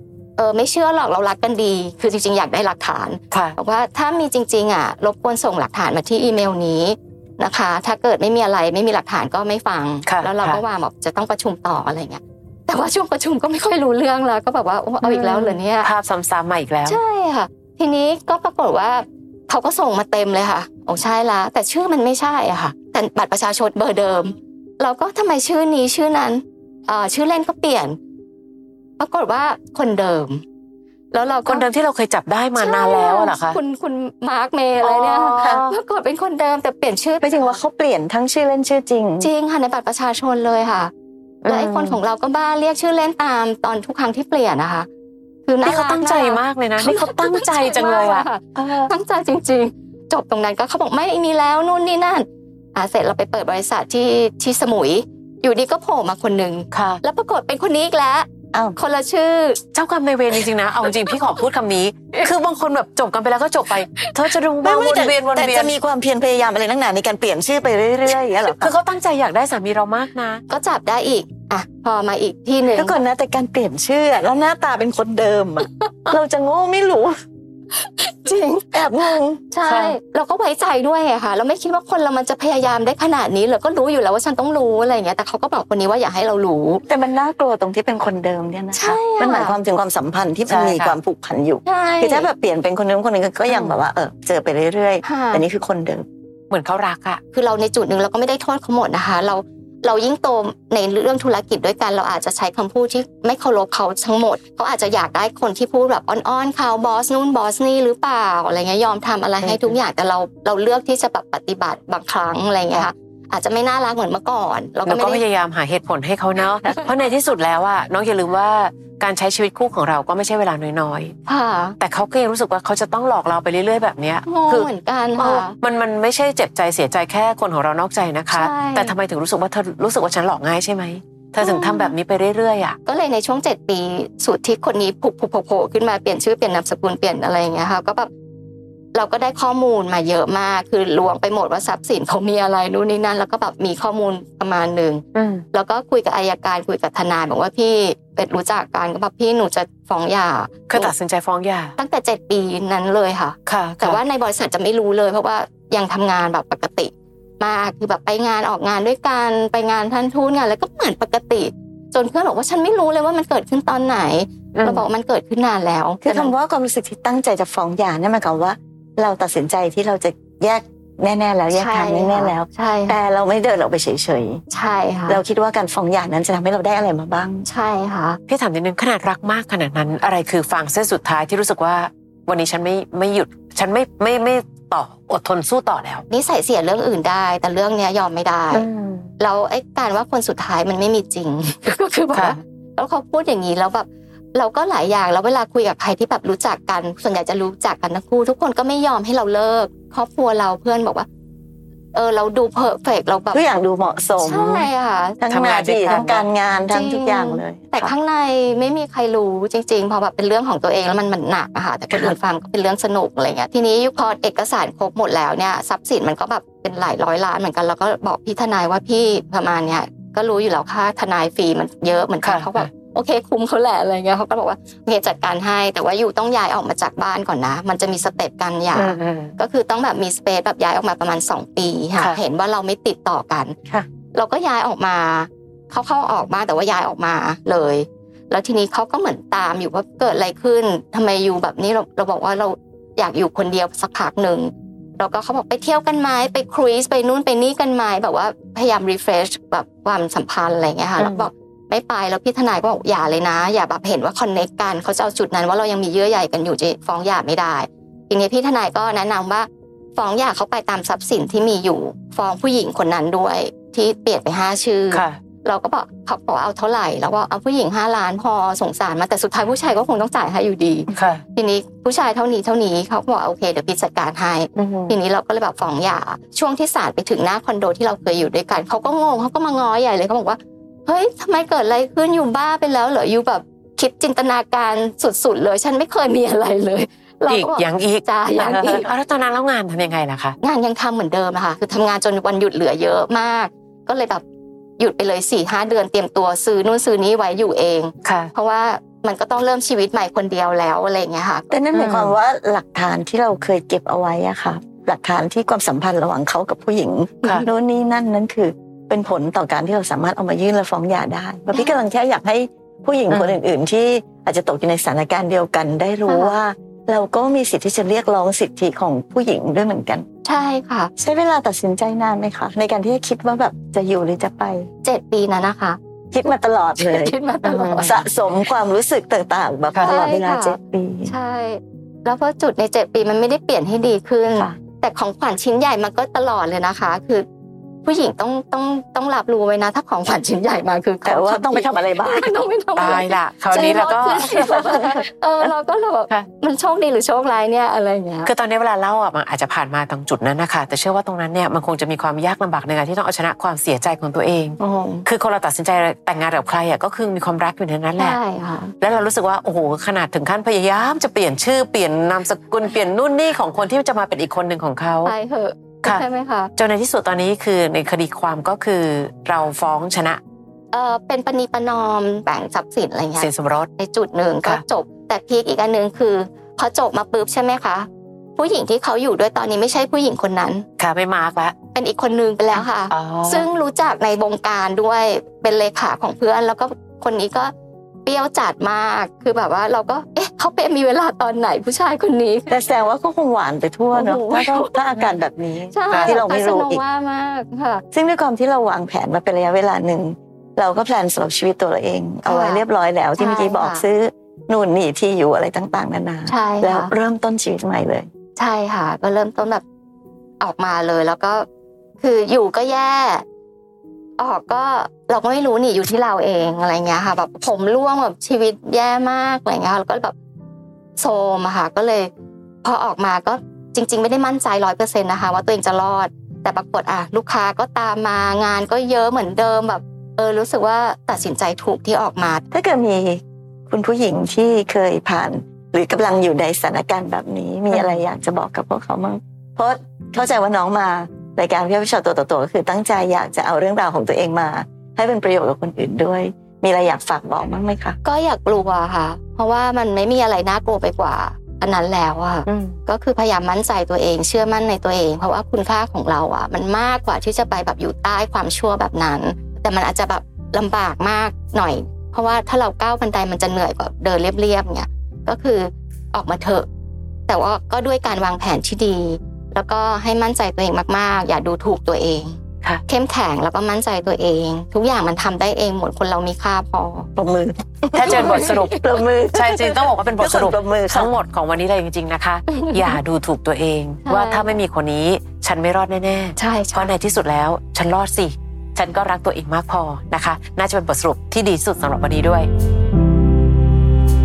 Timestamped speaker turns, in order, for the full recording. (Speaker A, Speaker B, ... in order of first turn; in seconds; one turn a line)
Speaker A: 0.4-15.9
Speaker B: 3.3-3.5
Speaker B: 10.1-10.6
Speaker B: 15.0-17.0
Speaker A: 16.9-28.0
Speaker A: 29.0-30.4
Speaker A: 31.1-31.6
Speaker B: 31.4-33.6
Speaker A: 32.5-37.5
Speaker B: 34.8-35.8
Speaker C: 37.2-39.3
Speaker A: 39.2-40.9
Speaker B: 41.4-42.0
Speaker A: 41.5-44.9
Speaker A: 45.5-59.6
Speaker B: 45.6-48.9
Speaker B: 56.7-57.0
Speaker B: 59.7-65.7
Speaker C: 64.6-68.8
Speaker B: 68.4-70.4
Speaker A: 70.5-73.0
Speaker C: 72.7-77.2
Speaker A: 77.9-78.3
Speaker C: 78.2-79.4
Speaker A: 79.5-86.8
Speaker B: 79.6-80.0
Speaker C: 86.8-96.0
Speaker A: 88.7-89.6
Speaker B: 90.5-91.0
Speaker A: 91.6-92.3
Speaker B: 93.5-93.7
Speaker A: 95.0-95.5
Speaker B: 96.5-97.2
Speaker A: 97.3-115.2
Speaker B: 109.4-109.7
Speaker B: 114.8-121.1
Speaker A: 121.2-121.8
Speaker B: 121.8-132.8
Speaker A: 124.2-125.5
Speaker A: 128.3-128.9
Speaker A: 131.4-131.9
Speaker A: 132.8-138.1
Speaker A: 138.9-150.9
Speaker B: 145.1-145.4
Speaker B: 150.7-151.7
Speaker A: 151.8-166.3
Speaker B: 153.5-154.0
Speaker B: 164.5-164.8
Speaker C: 166.0-174.4
Speaker A: 171.5-173.0
Speaker A: 174.5-175.2
Speaker C: 175.1-177.4
Speaker A: 177.4-178.2
Speaker B: 178.3-186.0
Speaker A: 186.1-188.7
Speaker B: 188.5-189.1
Speaker A: 189.2-201.1
Speaker A: 201.9-203.4
Speaker C: 203.3-204.7
Speaker A: 204.2-205.2
Speaker C: 205.2-207.9
Speaker B: 205.3-206.2
Speaker A: 205.9-233.6
Speaker B: 222.2-222.7
Speaker B: 228.7-229.3
Speaker A: 234.1-288.9
Speaker B: 251.0-251.3
Speaker B: 264.9-265.2
Speaker B: 270.9-271.2
Speaker B: 274.6-274.9
Speaker B: 287.3-290.4
Speaker A: 290.4-294.2
Speaker A: 294.8-301.5
Speaker B: 298.0-298.3
Speaker C: 301.5-320.1
Speaker B: 301.7-302.1
Speaker A: 311.5-311.8
Speaker B: 313.1-313.4
Speaker A: 316.1-316.4
Speaker A: 320.2-320.9
Speaker C: 321.0-324.7
Speaker A: 324.8-325.8
Speaker C: 326.1-327.1
Speaker A: 326.8-327.9
Speaker B: 327.4-328.0
Speaker C: 327.8-331.1
Speaker B: 329.7-330.0
Speaker A: 329.8-337.2
Speaker A: 337.8-348.3
Speaker C: 341.0-342.3
Speaker B: 342.8-344.9
Speaker C: 343.5-345.5
Speaker B: 348.2-358.2
Speaker A: 354.6-355.1
Speaker A: 358.0-358.7
Speaker B: 358.8-365.1
Speaker A: 365.0-366.5
Speaker B: 366.6-370.2
Speaker A: 370.7-380.6
Speaker B: 373.2-373.7
Speaker B: 380.8-381.5
Speaker A: 381.7-387.5
Speaker B: 382.6-383.5
Speaker A: 388.0-392.5
Speaker C: 392.5-396.8
Speaker A: 393.9-395.1
Speaker A: 395.7-397.8
Speaker C: 397.9-408.1
Speaker A: 402.2-402.6
Speaker A: 403.1-403.8
Speaker A: 406.3-406.9
Speaker A: 408.4-409.6
Speaker A: 410.4-411.4
Speaker A: 412.0-413.2
Speaker A: 414.2-420.1
Speaker A: 421.0-422.1
Speaker A: 422.6-432.4
Speaker C: 432.5-448.0
Speaker B: 437.7-438.0
Speaker A: 448.0-466.7
Speaker B: 452.5-452.8
Speaker A: 467.3-477.1
Speaker C: 477.1-481.1
Speaker B: 477.9-492.5
Speaker A: 478.1-478.7
Speaker A: 482.5-482.9
Speaker A: 484.0-484.6
Speaker A: 486.4-486.9